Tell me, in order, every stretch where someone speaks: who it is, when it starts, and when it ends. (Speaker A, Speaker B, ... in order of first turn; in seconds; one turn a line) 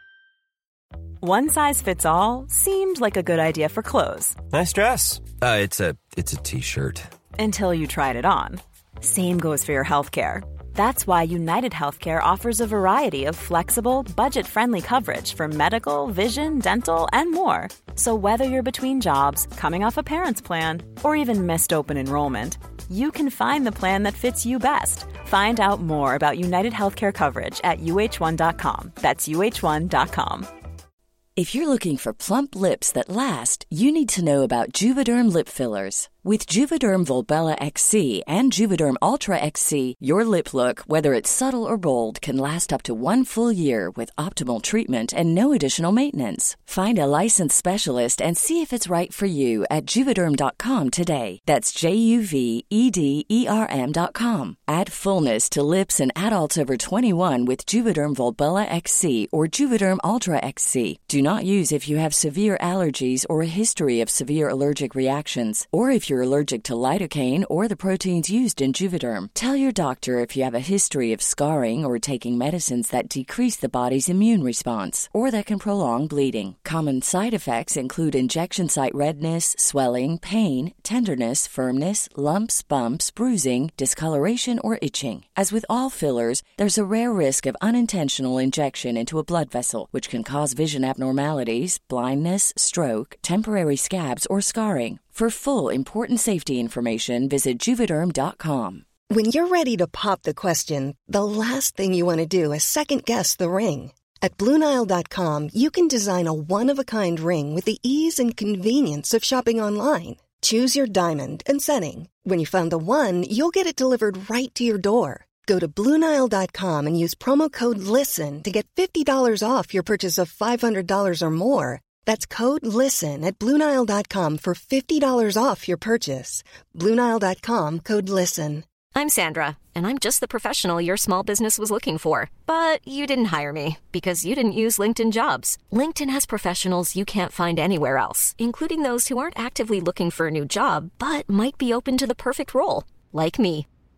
Speaker A: 1.2-4.4
Speaker B: 4.5-7.1
Speaker A: 7.4-30.5
Speaker C: 31.4-98.8
Speaker D: 99.1-128.7
Speaker E: 128.9-143.7